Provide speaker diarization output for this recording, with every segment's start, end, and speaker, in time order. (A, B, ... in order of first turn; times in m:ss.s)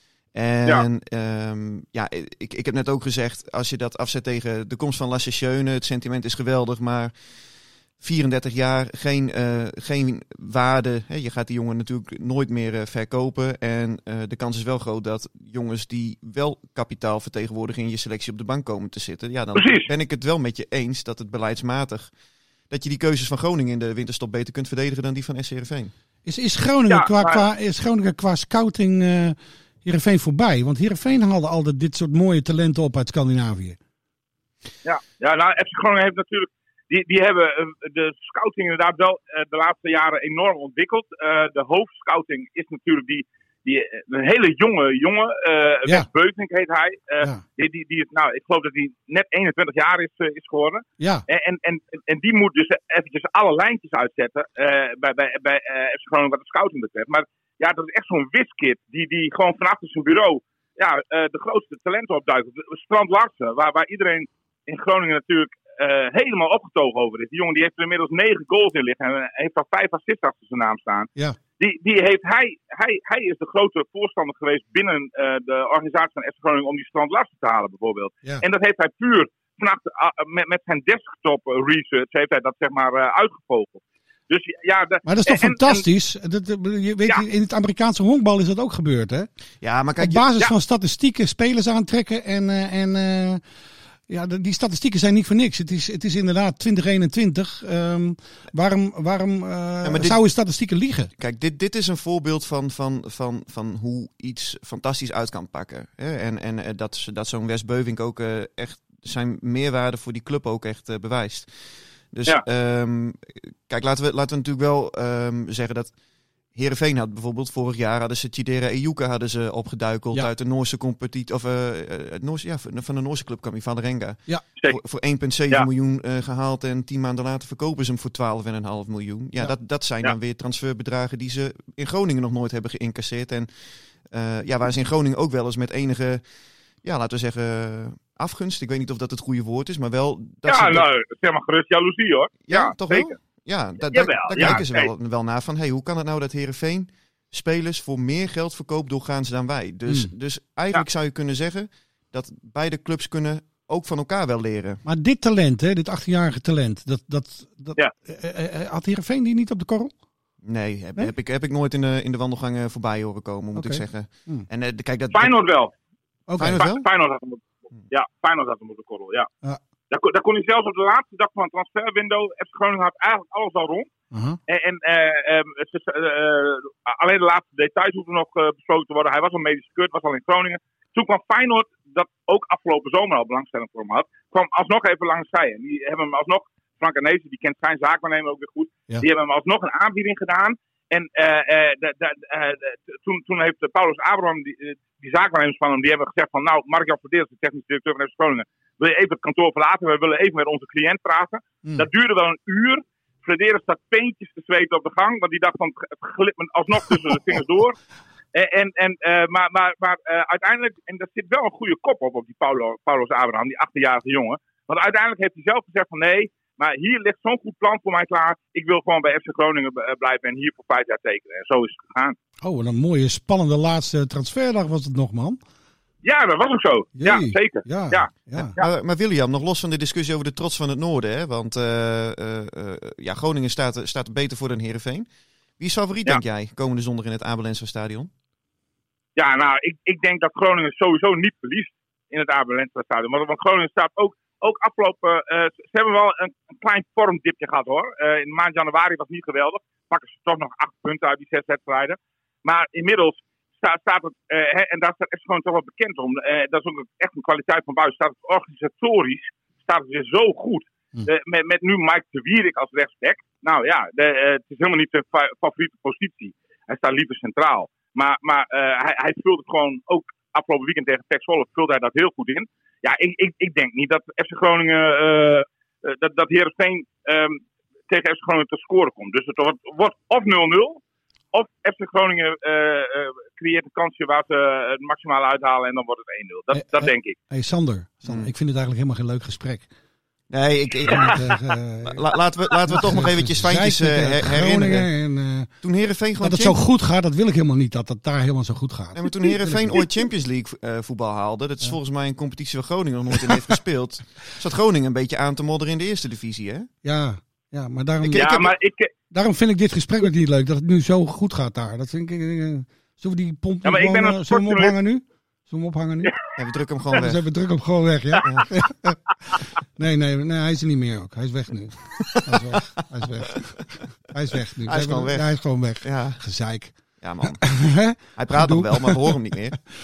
0:00.3-0:07.2 A
0:08.0-0:22.1 A
0:19.6-0:19.9 B
0:22.7-0:25.9 A
0:26.2-0:33.8 C
0:26.9-0:27.4 B
0:34.8-1:25.8 B
0:51.0-0:51.2 C
1:25.0-1:29.3 C
1:29.6-1:30.2 A
1:30.0-1:33.4 C
1:34.1-1:41.1 C
1:39.8-1:40.3 A
1:41.2-1:55.9 A
1:56.5-2:16.2 A
2:16.8-2:20.9 A
2:20.5-2:23.2 B
2:22.4-2:34.8 A
2:23.9-2:24.9 B
2:34.8-2:39.9 C
2:40.4-2:45.4 A
2:43.5-2:44.5 C
2:45.1-2:45.7 B
2:46.3-2:46.6 C
2:46.4-2:46.9 A
2:46.4-2:49.3 B
2:49.9-2:53.9 B
2:54.1-2:54.4 C
2:54.5-3:27.8 B
3:28.3-3:42.2 B
3:42.4-3:45.4 C
3:46.0-3:48.7 B
3:47.0-3:48.5 C
3:48.6-3:55.1 A
3:55.6-3:58.1 A
3:59.2-4:40.8 B
4:41.3-4:47.2 B
4:46.5-4:49.7 C
4:48.0-4:48.3 A
4:50.3-4:51.2 A
4:50.9-4:52.0 C
4:50.9-4:51.2 B
4:51.9-4:54.9 A
4:52.7-4:55.5 C
4:55.6-4:56.6 A
4:56.2-4:59.8 C
4:59.0-5:06.7 A
5:06.8-5:08.2 C
5:08.0-5:08.5 A
5:08.1-5:08.9 B
5:09.1-5:16.1 C
5:13.6-5:14.8 B
5:16.0-5:16.3 B
5:16.4-5:17.2 A
5:16.9-5:29.2 C
5:18.2-5:18.5 A
5:22.1-5:22.8 A
5:24.7-5:26.2 A
5:27.0-5:27.5 A
5:28.2-5:29.6 A